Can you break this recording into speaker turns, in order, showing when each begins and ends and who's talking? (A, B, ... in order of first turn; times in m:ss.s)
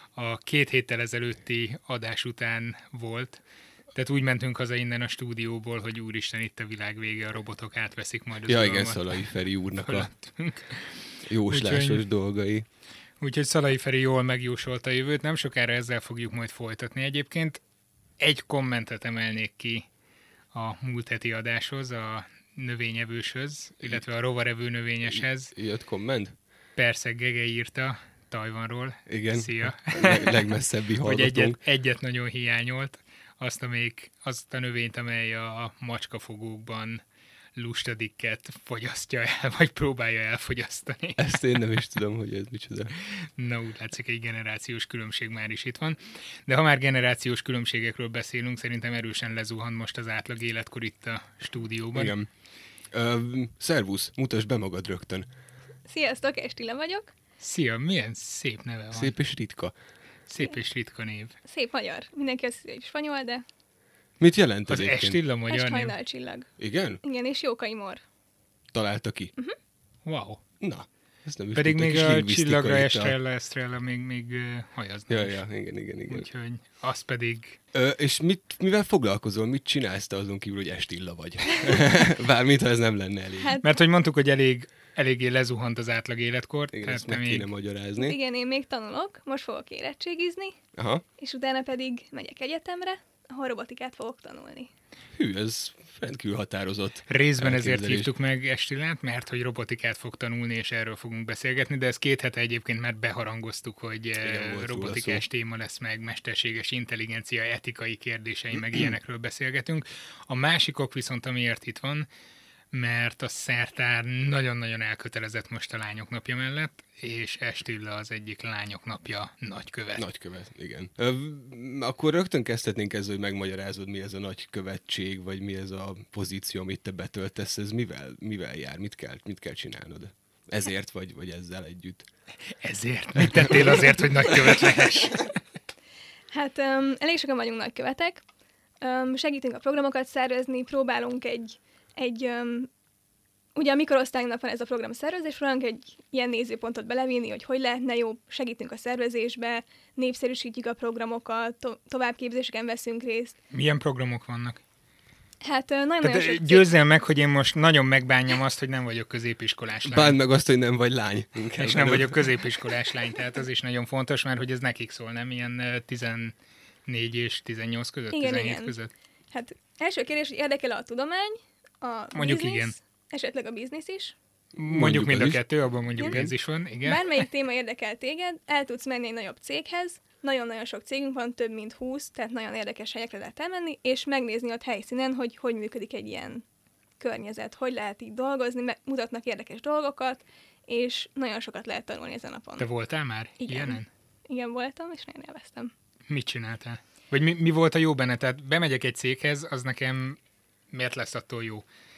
0:00.2-0:03.4 A
0:04.0-0:09.2 A
0:08.5-0:10.1 B
0:09.8-0:12.0 A
0:11.3-0:12.7 B
0:13.2-0:17.6 A
0:18.2-0:19.9 A
0:20.5-0:25.5 A
0:25.0-0:26.3 B
0:26.8-0:37.0 A
0:29.1-0:31.6 B
0:37.6-0:41.4 A
0:41.2-0:42.9 B
0:43.2-0:52.2 A
0:52.0-0:52.3 B
0:52.9-0:55.3 B
0:55.9-0:57.1 C
0:57.4-0:59.1 A
0:58.9-0:59.7 B
1:00.3-1:01.4 A
1:01.4-1:03.4 C
1:04.2-1:05.2 B
1:04.7-1:06.0 A
1:05.5-1:06.5 C
1:06.6-1:07.0 B
1:07.0-1:08.0 C
1:08.7-1:09.3 B
1:10.0-1:10.4 A
1:10.6-1:13.2 B
1:11.6-1:15.4 A
1:15.1-1:16.3 B
1:16.1-1:17.6 A
1:17.7-1:23.6 B
1:23.4-1:23.7 C
1:23.6-1:27.5 A
1:26.7-1:28.2 B
1:28.0-1:30.6 C
1:30.8-1:31.0 B
1:31.2-1:34.7 C
1:35.2-1:38.1 B
1:37.1-1:52.1 A
1:44.2-1:45.2 B
1:52.7-2:00.0 A
2:00.0-2:12.0 B
2:12.6-2:15.4 A
2:13.2-2:14.6 B
2:16.3-2:18.2 C
2:18.8-2:22.7 C
2:23.6-2:33.4 C
2:33.5-2:34.6 A
2:35.4-2:36.7 C
2:36.0-2:40.2 A
2:39.8-2:42.6 B
2:41.6-2:46.3 A
2:46.9-2:48.9 A
2:48.1-2:48.8 C
2:49.3-2:54.2 C
2:52.2-2:52.8 A
2:54.6-2:55.4 B
2:54.6-2:57.2 A
2:56.0-2:56.2 C
2:56.0-2:56.3 B
2:56.8-3:06.4 C
3:07.0-3:12.7 C
3:12.6-3:13.9 A
3:13.4-3:15.7 C
3:16.1-3:20.2 A
3:20.7-3:21.6 A